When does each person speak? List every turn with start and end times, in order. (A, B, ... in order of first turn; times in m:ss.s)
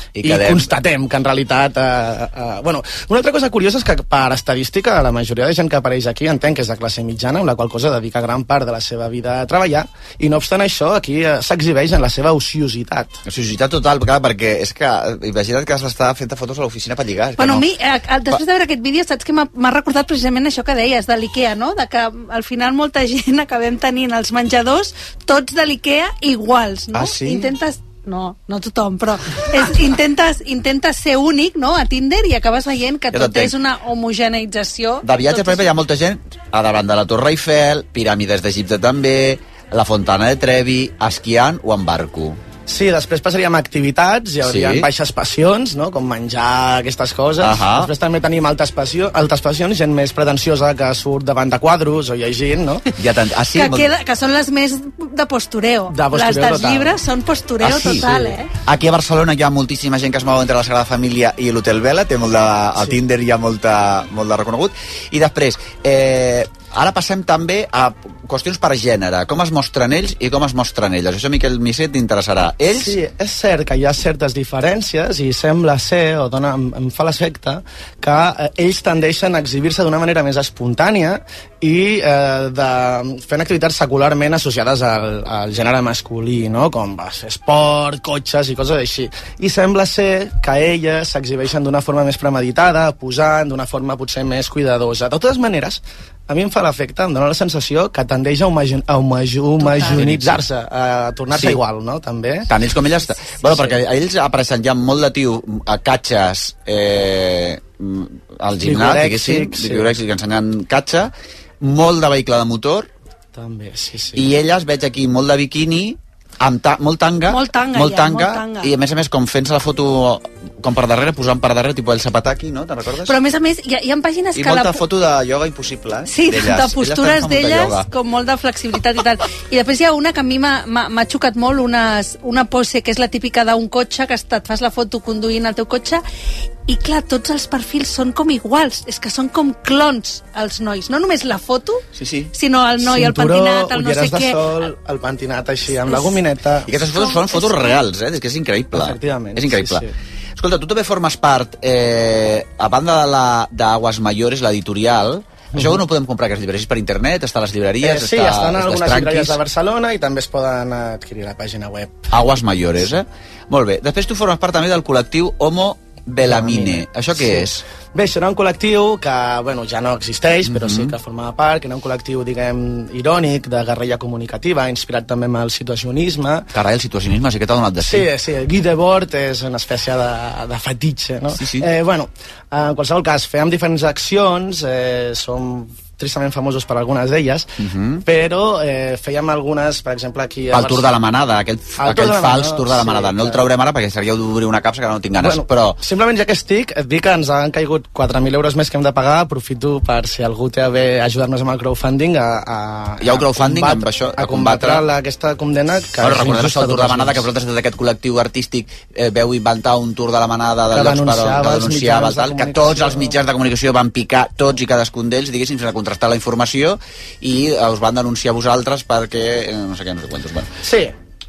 0:00.2-0:00.7 A
0:00.2-0:13.2 B
0:13.2-0:17.7 A
0:17.4-0:35.7 C
0:26.9-0:27.5 A
0:33.1-0:33.5 A
0:35.0-0:42.4 A
0:42.6-0:52.8 B
0:44.4-0:44.9 A
0:47.4-0:47.9 A
0:53.0-0:53.9 A
0:53.5-0:58.5 C
0:55.9-0:57.0 B
0:57.6-0:58.1 A
0:58.0-0:58.3 B
0:58.6-1:13.0 A
1:12.7-1:42.5 B
1:39.6-1:40.0 C
1:39.8-1:40.4 A
1:41.3-1:41.6 A
1:42.5-1:52.9 A
1:43.5-1:43.7 B
1:48.6-1:50.0 B
1:53.3-1:54.3 B
1:54.2-2:03.2 A
1:57.3-1:58.7 C
2:03.0-2:04.8 C
2:04.3-2:07.9 A
2:06.0-2:16.0 C
2:16.7-2:21.8 C
2:22.0-2:22.3 A
2:22.3-2:24.4 C
2:22.8-2:26.7 B
2:25.9-2:26.2 C
2:26.6-2:29.8 A
2:26.9-2:27.8 C
2:28.7-2:29.9 B
2:30.4-2:39.4 A
2:35.5-2:35.8 B
2:37.8-2:42.1 B
2:42.1-2:47.6 A
2:46.2-2:56.5 B
2:50.4-2:50.9 A
2:56.5-2:58.1 A
2:57.8-3:07.5 B
3:01.3-3:01.7 A
3:07.6-3:08.0 A
3:08.0-3:10.9 B
3:10.5-3:15.8 A
3:11.8-3:13.4 B
3:15.2-3:27.2 B
3:23.0-3:24.8 A
3:26.0-3:40.5 A
3:30.7-3:33.1 B
3:40.6-3:40.9 B